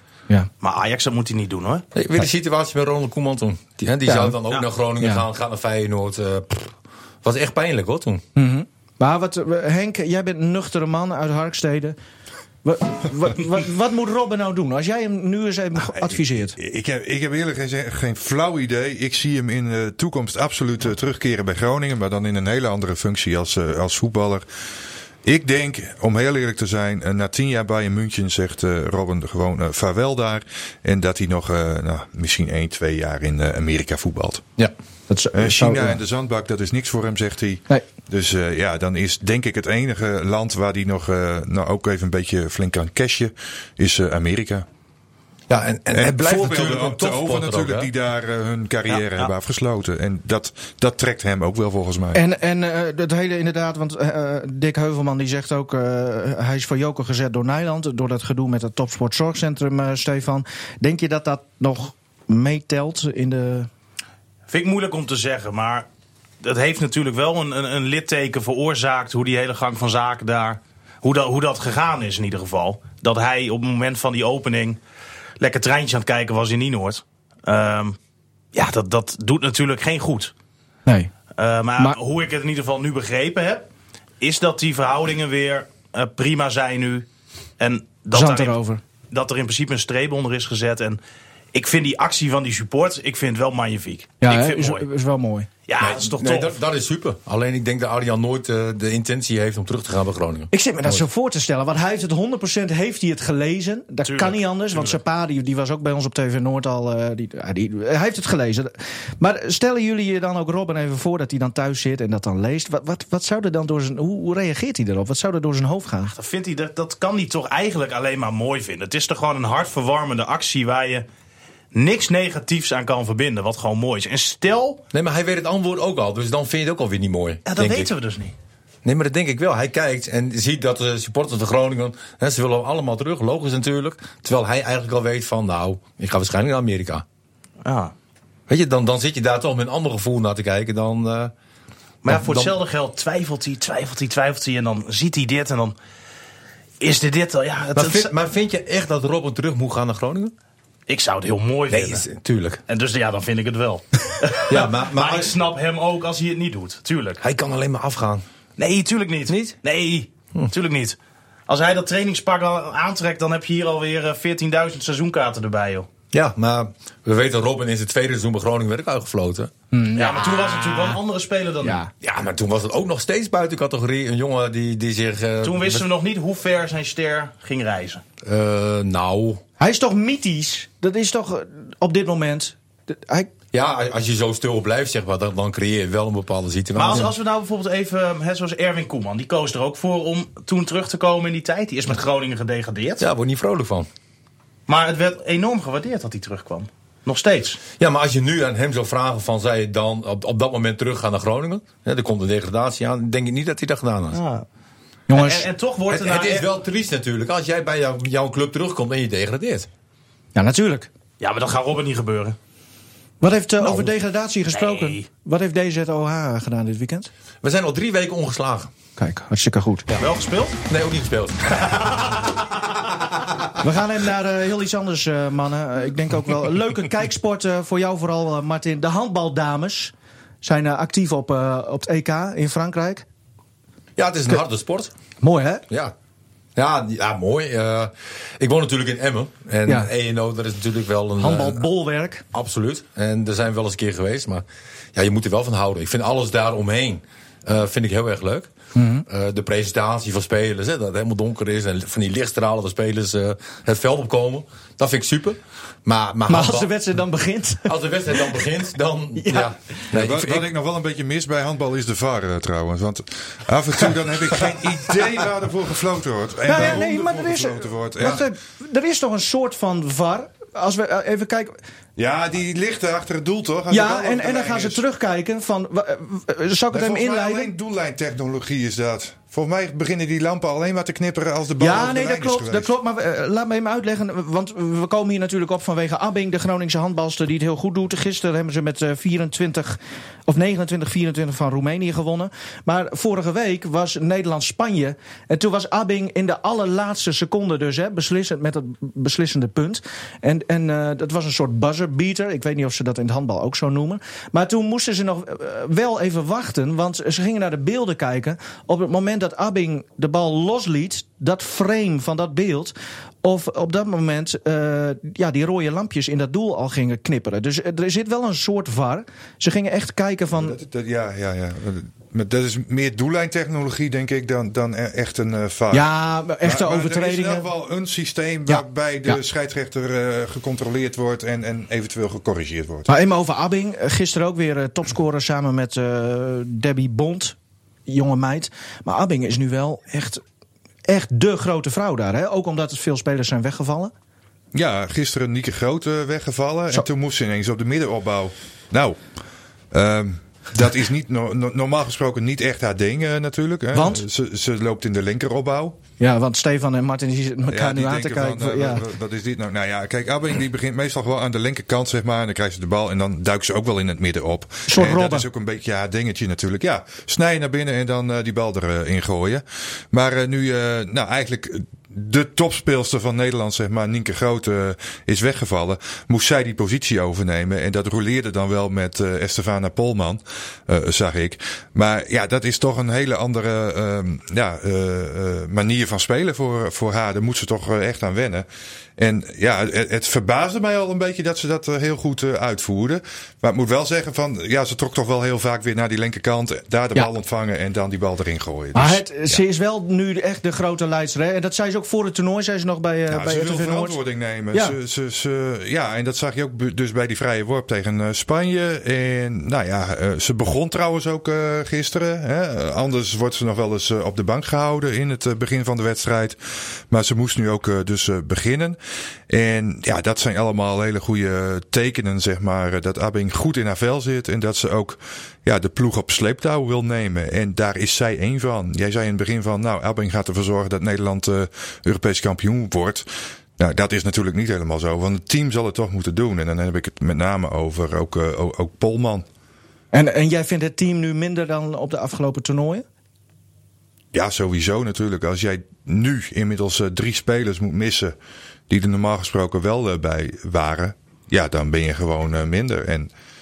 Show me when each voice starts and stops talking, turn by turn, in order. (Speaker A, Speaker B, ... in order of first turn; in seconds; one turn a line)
Speaker A: 0.6-1.8
Speaker B: 1.9-8.2
Speaker C: 4.0-4.4
Speaker C: 8.3-11.9
Speaker C: 12.6-16.6
Speaker D: 16.0-24.4
Speaker D: 25.2-34.5
Speaker C: 35.1-36.0
Speaker D: 35.3-44.6
Speaker B: 45.5-47.9
Speaker D: 45.9-52.2
Speaker A: 48.9-49.3
Speaker C: 52.1-63.7
Speaker A: 64.5-65.9
Speaker A: 66.4-74.8
Speaker A: 75.4-78.0
Speaker A: 78.5-80.3
Speaker C: 80.8-81.1
Speaker A: 81.4-83.7
Speaker A: 84.2-87.1
Speaker A: 87.6-88.5
Speaker C: 88.1-88.8
Speaker A: 89.1-91.0
Speaker A: 91.5-94.8
Speaker C: 94.2-95.5
Speaker A: 95.7-96.6
Speaker B: 95.8-101.0
Speaker C: 100.5-116.1
Speaker A: 104.0-105.0
Speaker A: 116.1-121.1
Speaker A: 121.7-124.8
Speaker B: 124.9-127.9
Speaker A: 127.5-128.3
Speaker B: 128.8-137.0
Speaker A: 137.6-137.9
Speaker B: 138.5-141.3
Speaker A: 142.0-145.8
Speaker B: 142.1-142.5
Speaker A: 146.8-148.1
Speaker B: 147.7-150.3
Speaker A: 150.9-152.1
Speaker B: 151.7-152.6
Speaker A: 152.7-157.2
Speaker B: 154.5-155.3
Speaker B: 157.2-158.2
Speaker A: 158.6-165.9
Speaker B: 159.3-159.5
Speaker B: 166.1-169.5
Speaker C: 169.7-171.0
Speaker A: 169.9-171.8
Speaker C: 171.6-171.9
Speaker B: 172.0-175.8
Speaker A: 175.4-178.0
Speaker B: 178.2-179.4
Speaker C: 179.6-183.3
Speaker B: 183.5-187.1
Speaker A: 186.8-193.1
Speaker B: 193.0-193.9
Speaker A: 194.7-197.6
Speaker B: 197.8-204.2
Speaker A: 204.1-204.4
Speaker C: 205.1-205.5
Speaker A: 205.1-206.5
Speaker B: 205.9-209.7
Speaker C: 210.3-210.9
Speaker A: 211.2-212.4
Speaker C: 213.2-217.1
Speaker A: 214.5-215.1
Speaker B: 217.4-218.7
Speaker C: 219.0-219.9
Speaker A: 220.0-220.6
Speaker B: 220.7-221.8
Speaker A: 221.5-222.4
Speaker C: 223.6-233.1
Speaker B: 234.0-234.9
Speaker C: 235.2-235.6
Speaker B: 236.6-241.6
Speaker C: 241.2-242.2
Speaker B: 242.3-244.4
Speaker B: 244.9-248.5
Speaker C: 248.7-249.0
Speaker B: 249.1-256.7
Speaker C: 256.3-258.4
Speaker B: 257.6-260.5
Speaker C: 259.2-259.5
Speaker D: 259.9-268.2
Speaker C: 266.4-271.6
Speaker D: 272.0-274.8
Speaker C: 273.7-277.5
Speaker D: 276.7-282.7
Speaker C: 281.6-320.6
Speaker D: 320.3-325.9
Speaker C: 325.7-327.5
Speaker D: 326.4-332.9
Speaker C: 328.5-329.2
Speaker C: 332.9-337.4
Speaker C: 337.9-340.2
Speaker C: 340.9-343.9
Speaker D: 344.5-349.0
Speaker D: 349.7-355.8
Speaker C: 353.7-354.0
Speaker C: 356.0-358.8
Speaker D: 357.5-399.4
Speaker C: 364.7-365.2
Speaker C: 398.7-404.0
Speaker D: 403.1-416.4
Speaker D: 416.9-418.8
Speaker D: 419.3-433.1
Speaker D: 433.6-439.2
Speaker C: 439.9-442.8
Speaker D: 444.1-448.1
Speaker D: 448.7-453.1